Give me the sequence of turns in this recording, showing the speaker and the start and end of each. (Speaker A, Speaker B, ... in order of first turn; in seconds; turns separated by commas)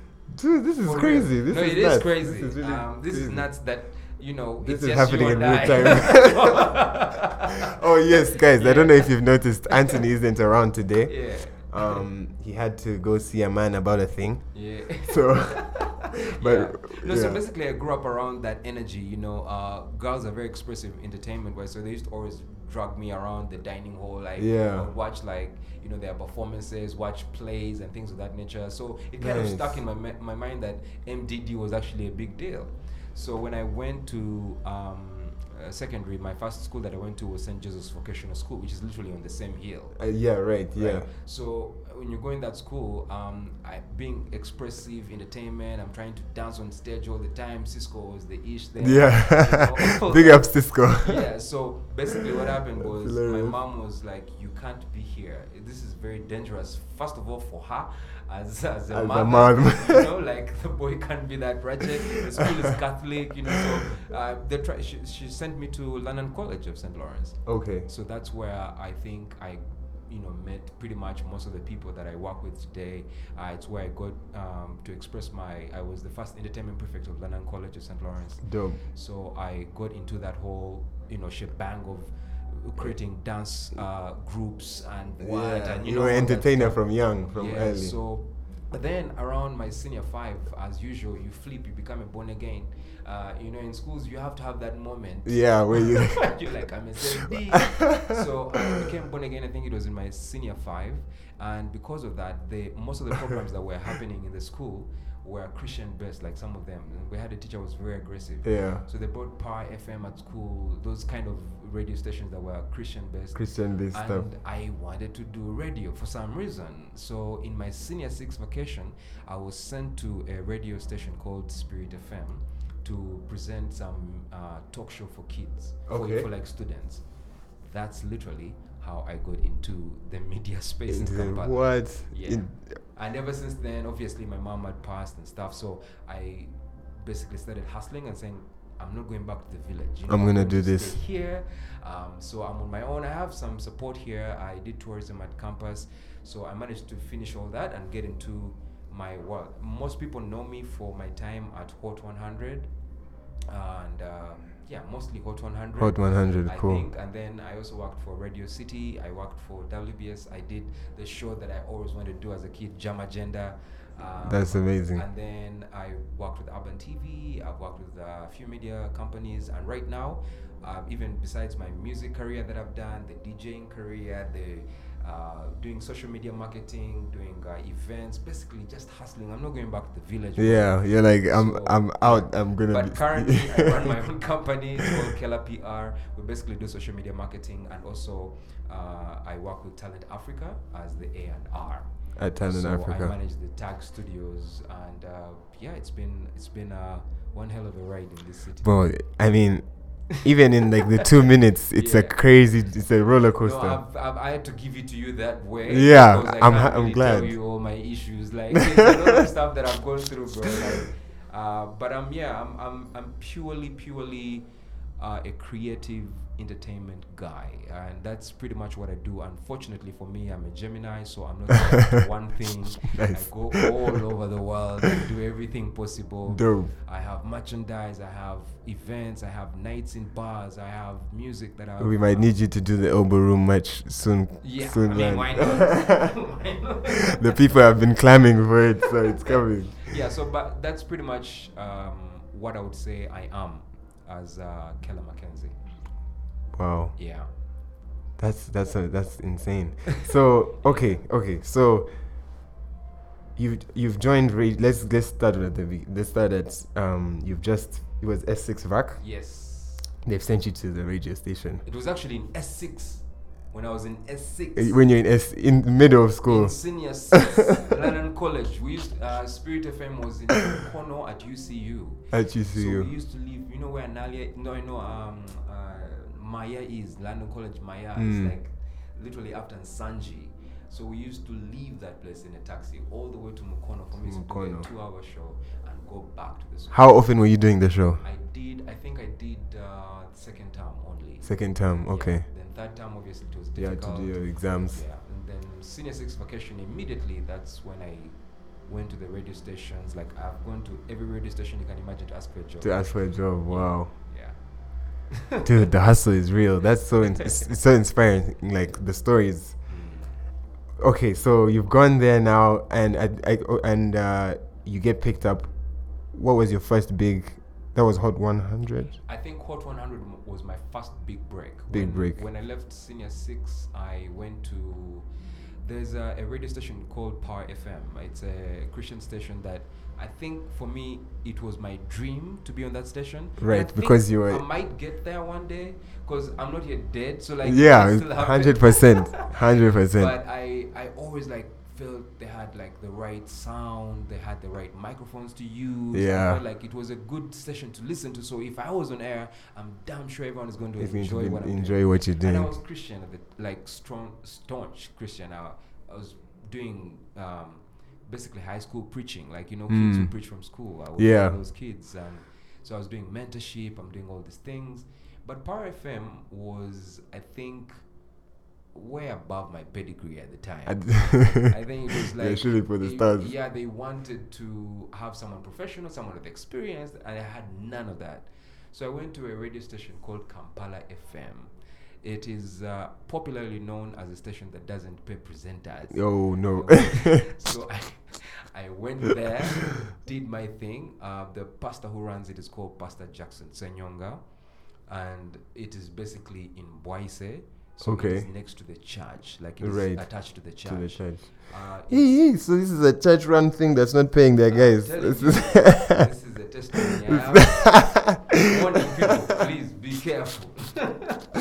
Speaker A: 0.3-3.5, Speaker B: 0.8-7.7, Speaker A: 4.6-6.7, Speaker A: 7.7-14.5, Speaker B: 8.5-9.1, Speaker B: 9.7-10.0, Speaker B: 11.1-12.0, Speaker B: 14.5-40.0, Speaker A: 15.1-17.4, Speaker A: 24.4-24.9, Speaker A: 29.2-29.8, Speaker A: 40.0-41.1, Speaker B: 40.8-127.0, Speaker A: 48.8-51.2, Speaker A: 52.8-53.6, Speaker A: 58.9-60.1, Speaker A: 67.5-67.9, Speaker A: 78.4-78.8, Speaker A: 85.2-88.0, Speaker A: 95.2-96.3, Speaker A: 97.7-98.8, Speaker A: 108.4-108.8, Speaker A: 113.3-114.3, Speaker A: 125.9-126.3, Speaker B: 127.6-152.7, Speaker A: 130.9-132.8, Speaker A: 140.1-141.0, Speaker B: 153.5-198.9, Speaker A: 155.8-156.8, Speaker A: 164.2-165.0, Speaker A: 180.4-184.0, Speaker A: 192.2-193.1, Speaker A: 198.6-203.8, Speaker B: 200.9-202.3, Speaker B: 203.3-214.5, Speaker A: 205.7-207.3, Speaker B: 215.0-232.3, Speaker A: 222.9-223.9, Speaker A: 226.3-226.7, Speaker A: 231.8-236.1, Speaker B: 234.4-237.4, Speaker A: 237.0-239.9, Speaker B: 239.2-245.6, Speaker A: 246.5-247.0, Speaker B: 247.0-247.3, Speaker A: 248.2-251.9, Speaker B: 250.6-251.0, Speaker A: 253.4-259.0, Speaker B: 259.0-259.9, Speaker A: 260.0-261.6, Speaker B: 261.6-264.8, Speaker A: 264.6-266.6, Speaker B: 266.3-286.9, Speaker A: 272.1-272.9, Speaker A: 278.0-278.4, Speaker A: 284.1-284.7, Speaker A: 286.7-288.0, Speaker B: 288.0-304.4, Speaker A: 291.2-292.3, Speaker A: 293.6-294.8, Speaker A: 302.6-303.9, Speaker B: 305.1-305.5, Speaker A: 305.4-309.6, Speaker B: 307.0-307.4, Speaker B: 309.7-310.2, Speaker A: 310.8-315.5, Speaker A: 316.1-318.9, Speaker B: 319.0-325.1, Speaker A: 321.7-322.2, Speaker B: 325.6-339.3, Speaker A: 333.4-334.4, Speaker A: 337.4-340.1, Speaker B: 339.9-367.8, Speaker A: 345.9-346.4, Speaker A: 350.8-352.5, Speaker A: 359.7-360.1, Speaker A: 361.0-361.4, Speaker B: 368.7-381.5, Speaker A: 370.7-373.3, Speaker B: 382.0-394.2, Speaker A: 385.9-387.2, Speaker B: 394.9-402.1, Speaker A: 397.8-398.3, Speaker A: 399.6-406.1, Speaker B: 404.5-411.2, Speaker A: 407.1-408.5